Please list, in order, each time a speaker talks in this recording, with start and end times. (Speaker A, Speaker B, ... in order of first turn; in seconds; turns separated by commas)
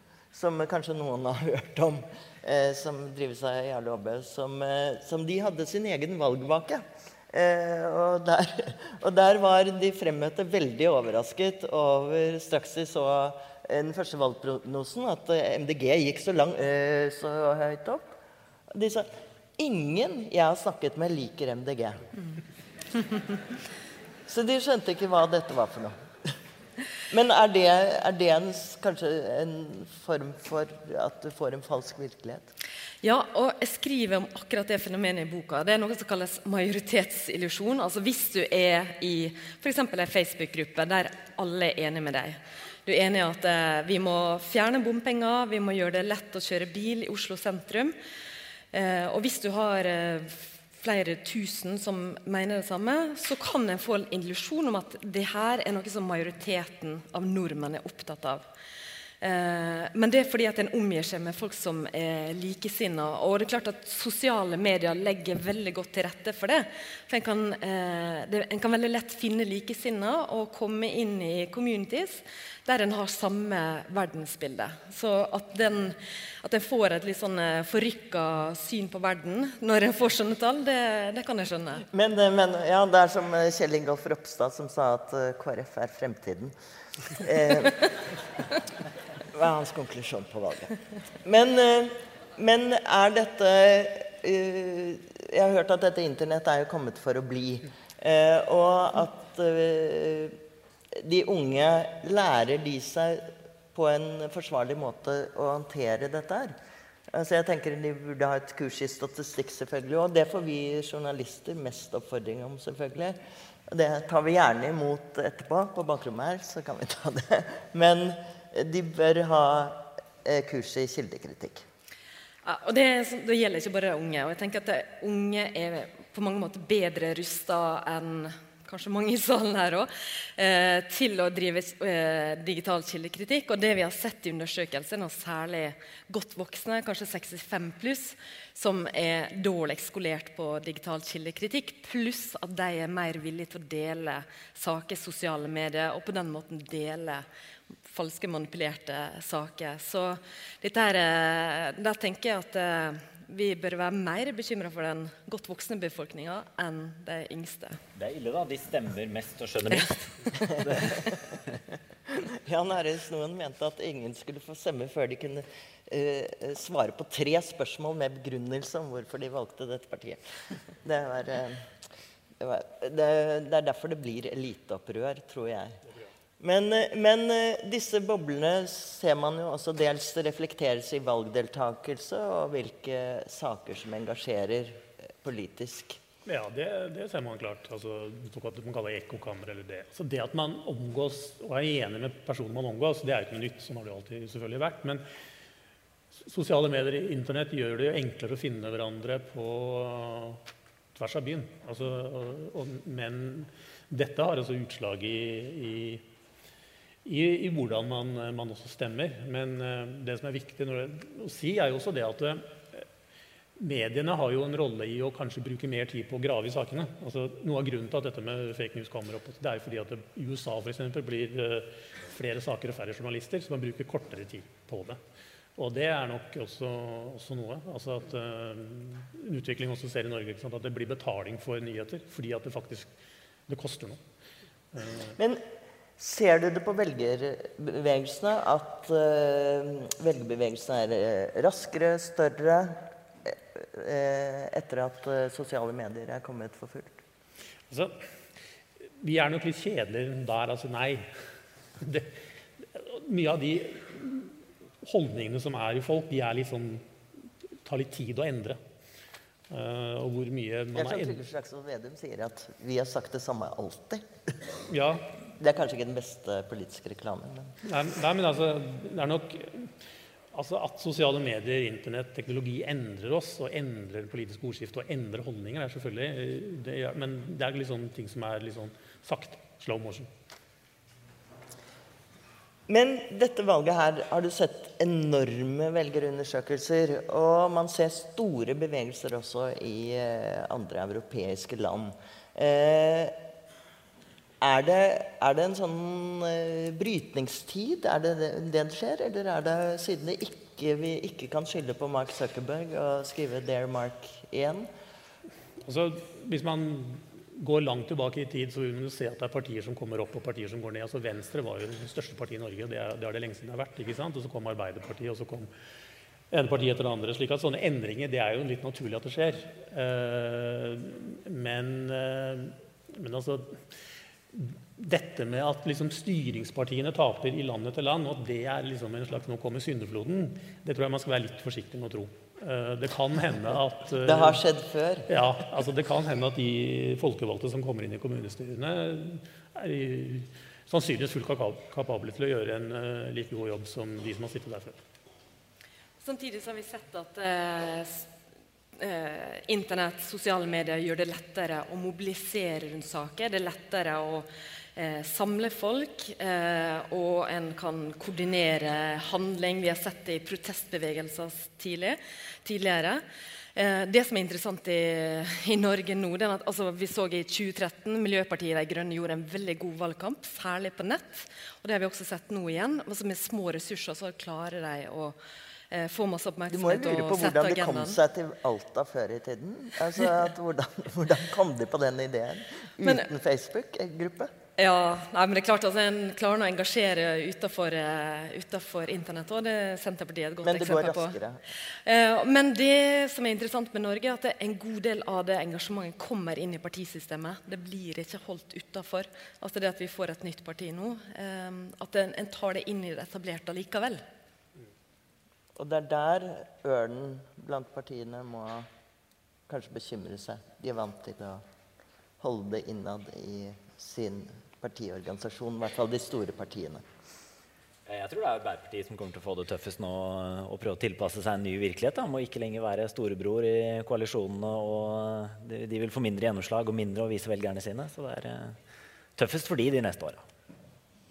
Speaker A: 0.3-18.1, Speaker A: 18.7-22.1, Speaker A: 24.3-26.3, Speaker A: 27.1-32.5, Speaker B: 33.0-47.9, Speaker B: 48.7-58.4, Speaker B: 59.2-81.8, Speaker A: 81.9-86.5, Speaker A: 87.2-87.8, Speaker A: 89.3-100.4, Speaker A: 100.9-106.5, Speaker A: 107.1-113.2, Speaker A: 113.7-121.6, Speaker B: 122.4-147.2, Speaker B: 147.9-157.8, Speaker C: 157.9-161.3, Speaker A: 162.1-170.2, Speaker A: 170.8-171.7, Speaker A: 172.4-175.8, Speaker A: 176.4-186.0, Speaker D: 186.2-195.0, Speaker D: 196.2-200.4, Speaker D: 200.9-206.0, Speaker D: 207.0-212.4, Speaker D: 213.6-225.0, Speaker D: 225.6-232.9, Speaker D: 233.5-234.0, Speaker D: 234.7-235.1, Speaker A: 235.2-235.4, Speaker A: 236.0-247.0, Speaker D: 247.7-247.9, Speaker D: 249.0-251.1, Speaker D: 251.8-256.9, Speaker D: 257.6-258.6, Speaker D: 259.5-261.2, Speaker A: 260.7-264.1, Speaker D: 264.7-265.1, Speaker A: 265.4-267.6, Speaker D: 267.6-269.7, Speaker D: 270.3-280.1, Speaker A: 282.7-293.2, Speaker A: 294.4-304.7, Speaker D: 305.6-315.5, Speaker D: 316.3-323.6, Speaker D: 324.3-334.4, Speaker A: 334.0-335.1, Speaker D: 335.1-344.8, Speaker B: 346.0-348.0, Speaker B: 348.8-363.0, Speaker B: 363.5-375.2, Speaker B: 375.7-378.0, Speaker A: 376.5-384.3, Speaker B: 384.6-391.2, Speaker A: 390.4-391.4, Speaker B: 391.8-404.0, Speaker A: 405.6-408.7, Speaker A: 409.5-411.4, Speaker A: 412.2-416.8, Speaker C: 417.9-428.6, Speaker C: 429.1-430.2